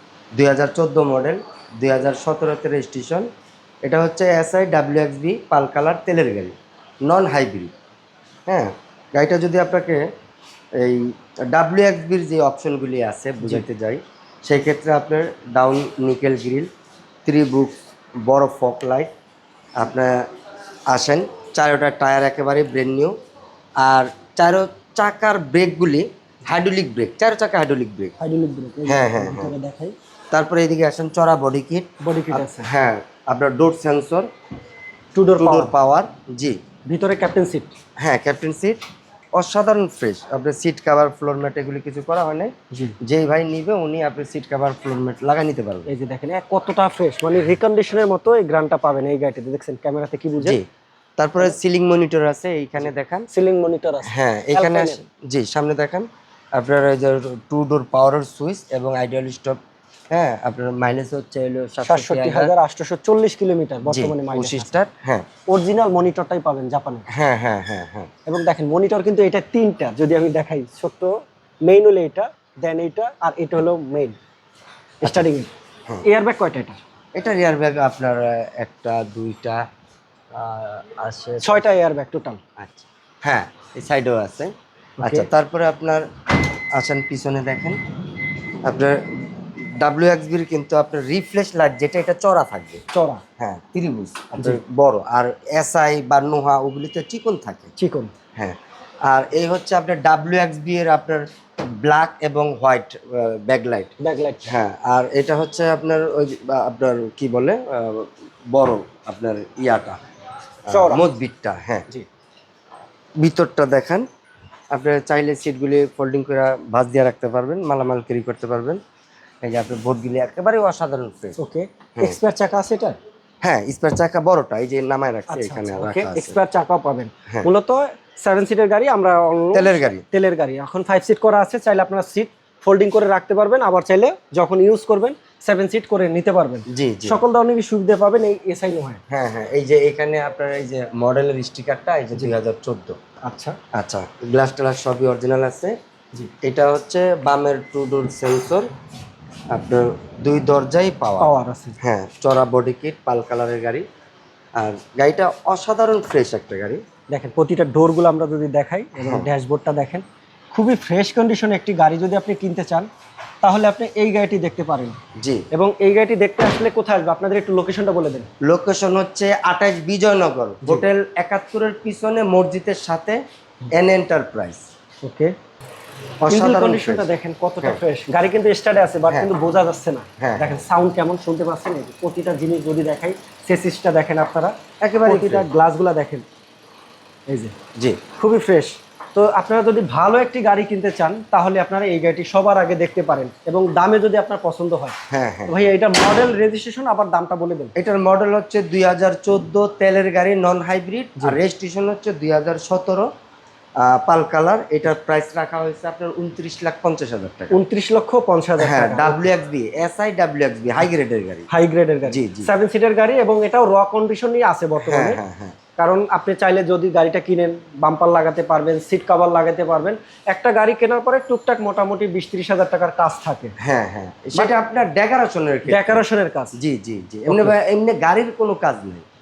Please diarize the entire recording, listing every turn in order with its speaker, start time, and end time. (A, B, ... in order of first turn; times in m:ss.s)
0:00.3-0:03.3 A
0:03.8-0:07.7 A
0:08.5-0:10.0 A
0:10.8-0:16.7 A
0:13.4-0:13.6 B
0:17.2-0:19.1 A
0:19.8-0:20.2 A
0:20.9-0:23.1 A
0:23.8-0:28.1 A
0:28.2-0:30.0 B
0:28.8-0:29.5 A
0:30.3-0:34.3 A
0:32.0-0:32.7 B
0:35.1-0:35.7 B
0:35.4-0:36.6 A
0:36.8-0:37.7 B
0:38.0-0:38.8 A
0:39.4-0:45.9 A
0:42.7-0:43.0 B
0:45.9-0:50.6 B
0:50.4-0:50.6 A
0:51.2-0:53.3 A
0:53.3-0:55.0 B
0:54.0-0:59.6 A
1:00.1-1:02.5 A
1:01.9-1:04.7 B
1:03.8-1:05.3 A
1:05.5-1:07.0 B
1:07.1-1:08.1 A
1:08.2-1:14.2 B
1:15.0-1:15.5 B
1:16.0-1:16.8 B
1:17.2-1:19.6 A
1:20.3-1:21.6 A
1:21.4-1:22.4 B
1:22.6-1:26.0 A
1:26.7-1:27.8 A
1:28.6-1:32.8 A
1:32.9-1:33.2 B
1:33.4-1:37.7 A
1:34.3-1:34.6 B
1:37.8-1:38.1 B
1:38.4-1:41.2 A
1:41.8-1:43.9 A
1:44.0-1:44.5 B
1:44.4-1:50.0 A
1:50.7-1:51.9 A
1:50.7-1:51.1 B
1:53.2-1:54.0 A
1:54.7-1:58.8 A
1:59.4-2:01.4 A
2:01.4-2:03.0 B
2:03.4-2:06.4 A
2:05.3-2:19.0 B
2:09.5-2:10.0 A
2:16.7-2:17.2 A
2:19.1-2:23.0 A
2:23.2-2:23.6 B
2:23.7-2:25.7 A
2:26.4-2:28.7 A
2:29.5-2:33.8 A
2:31.2-2:31.8 B
2:34.6-2:36.8 A
2:37.1-2:42.9 B
2:39.0-2:39.3 A
2:43.4-2:45.0 B
2:45.2-2:45.4 A
2:45.5-2:48.3 B
2:48.4-2:53.2 A
2:53.7-2:54.6 A
2:55.0-2:55.3 B
2:56.2-2:57.0 A
2:56.2-3:06.2 B
3:00.2-3:00.6 A
3:04.8-3:05.4 A
3:07.3-3:07.5 B
3:08.1-3:17.7 B
3:15.1-3:15.5 A
3:17.8-3:23.1 A
3:23.8-3:27.6 A
3:27.5-3:29.3 B
3:28.6-3:31.5 A
3:31.5-3:35.2 B
3:32.1-3:32.5 A
3:34.8-3:35.6 A
3:35.8-3:43.5 B
3:43.6-3:46.0 A
3:45.6-3:46.5 B
3:46.6-3:49.0 A
3:47.2-3:47.6 B